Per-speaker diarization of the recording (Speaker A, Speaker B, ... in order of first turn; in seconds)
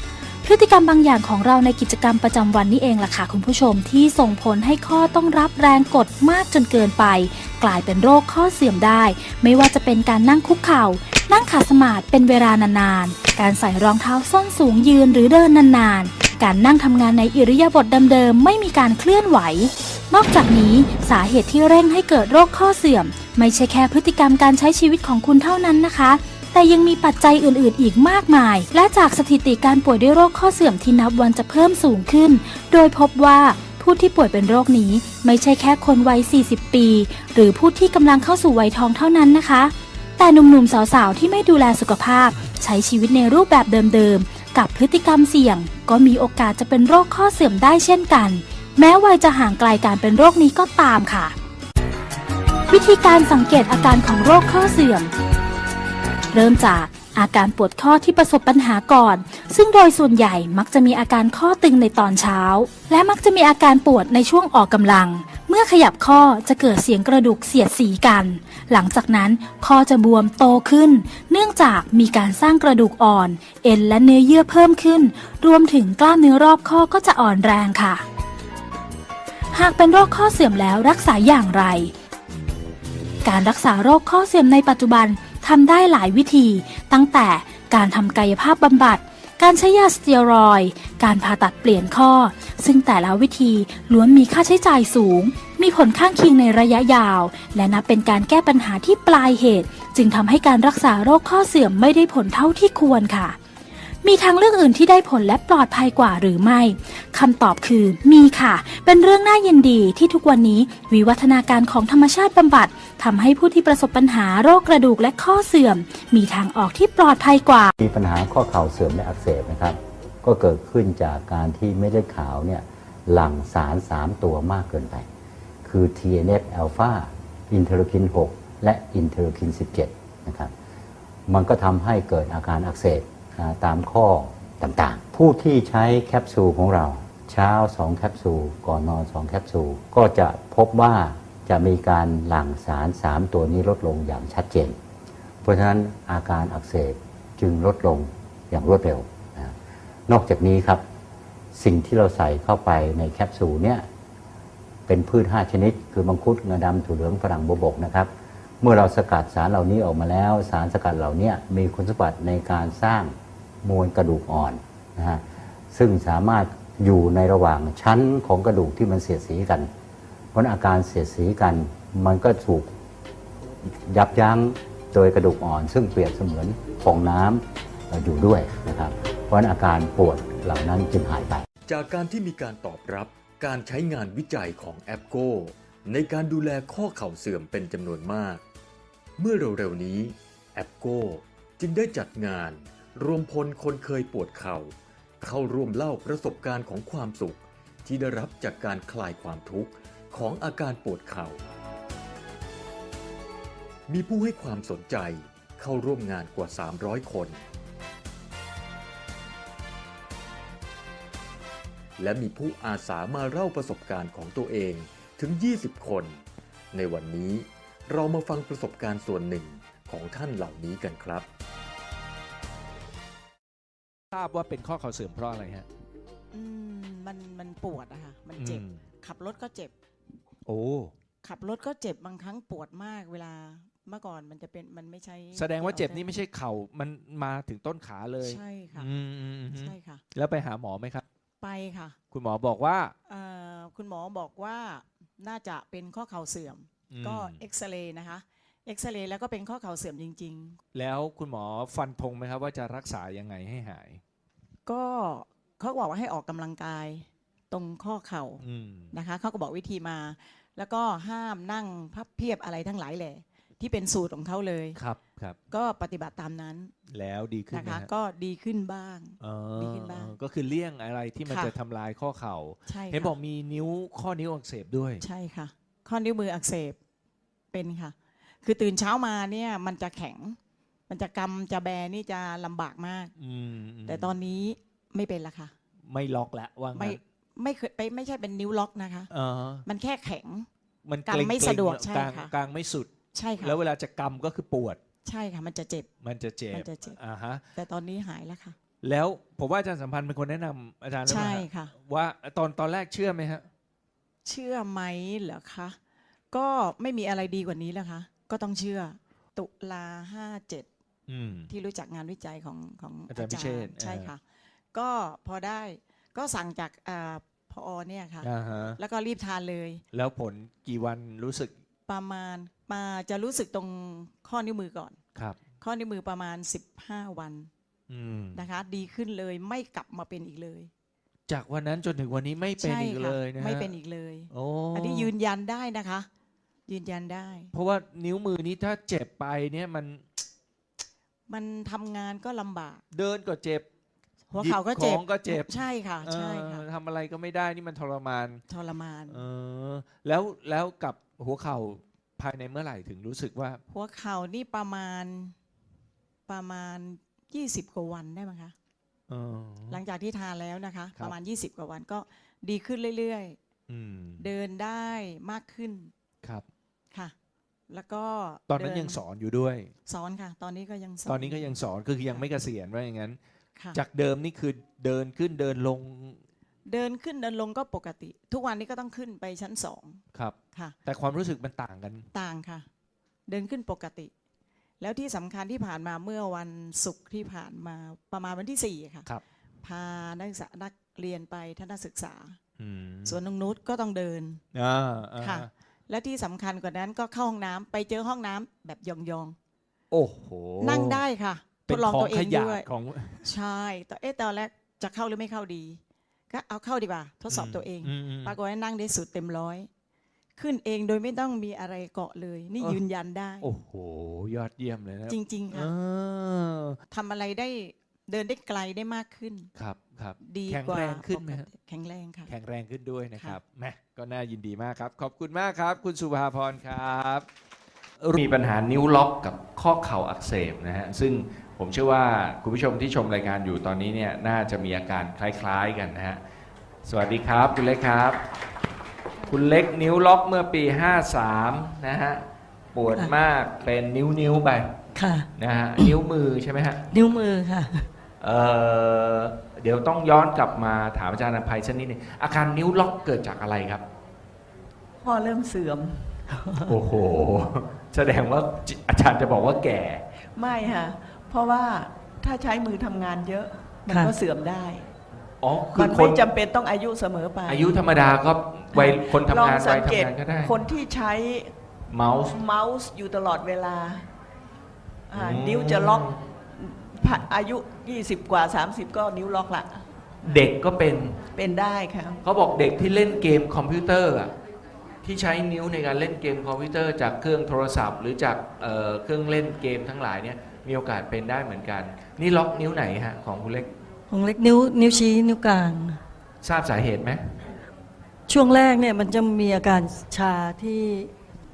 Speaker A: 0.4-51.4, 52.7-55.1, 56.3-78.0, 79.5-81.9, 83.2-103.4, 104.0-117.7
Speaker B: 117.8-125.1, 125.6-130.5, 131.3-144.8, 145.4-149.6, 150.1-150.8, 151.5-153.9, 154.9-169.7, 170.3-172.7, 173.7-181.4
Speaker C: 181.7-188.4, 189.2-201.4, 203.9-207.4, 212.0-216.2, 216.7-221.3
Speaker D: 224.1-225.7, 228.4-228.8, 230.5-230.9, 235.4-241.1, 242.1-242.9, 246.9-247.4, 250.7-254.0, 258.4-258.9, 264.8-265.4, 266.9-267.9, 269.2-275.0, 283.2-284.1, 285.9-287.0, 289.1-289.6, 290.9-294.8, 296.0-297.4, 298.8-303.5, 311.1-311.5, 313.1-314.1, 318.2-318.8, 319.9-321.5, 327.9-328.4, 331.3-333.7, 334.3-335.1, 337.5-340.2, 342.9-343.7, 344.4-348.4, 349.1-353.6, 359.1-359.8, 363.7-364.2, 368.5-369.7, 371.1-373.2, 373.7-376.2, 380.1-382.1, 392.6-393.2, 394.5-395.5, 399.9-401.0, 401.7-403.2, 407.3-408.4, 413.4-416.8, 419.6-421.5, 422.3-427.3, 428.0-436.2, 436.9-438.2, 439.3-442.2, 442.7-444.8, 445.4-446.9, 448.2-453.8, 456.6-460.0, 465.4-466.3, 467.5-470.6, 471.9-472.4, 475.1-476.2, 480.2-481.2, 482.2-484.3, 485.0-493.7, 496.4-497.4
Speaker E: 226.3-229.7, 231.2-236.1, 238.2-238.9, 239.5-240.0, 241.4-242.0, 243.1-250.6, 254.7-264.8, 265.5-266.7, 267.5-270.1, 271.3-271.5, 272.7-273.1, 275.0-276.8, 277.5-280.4, 280.9-283.1, 283.9-285.5, 286.8-289.1, 289.7-290.5, 291.1-292.3, 293.1-293.6, 295.1-295.9, 296.5-297.0, 297.6-298.6, 301.1-301.7, 304.2-305.8, 306.3-310.7, 311.5-314.2, 314.7-319.8, 321.9-325.0, 325.6-327.5, 328.4-330.7, 332.6-336.1, 336.7-337.5, 341.3-342.8, 344.3-346.6, 348.5-349.2, 353.7-355.4, 356.3-358.5, 359.7-363.4, 364.2-365.9, 367.7-369.0, 369.9-371.6, 376.7-380.0, 382.1-382.7, 383.3-384.1, 384.8-389.1, 389.6-392.4, 393.1-394.4, 395.2-399.4, 400.6-402.7, 403.2-409.7, 410.4-413.5, 415.1-415.7, 416.9-419.5, 420.2-422.3
Speaker F: 445.0-445.3, 446.9-447.9, 456.3-456.7, 494.1-496.0, 498.3-501.1
Speaker G: 455.0-456.2, 460.4-464.9, 465.8-467.8, 468.8-471.5, 472.2-474.1, 475.1-480.4, 481.4-482.2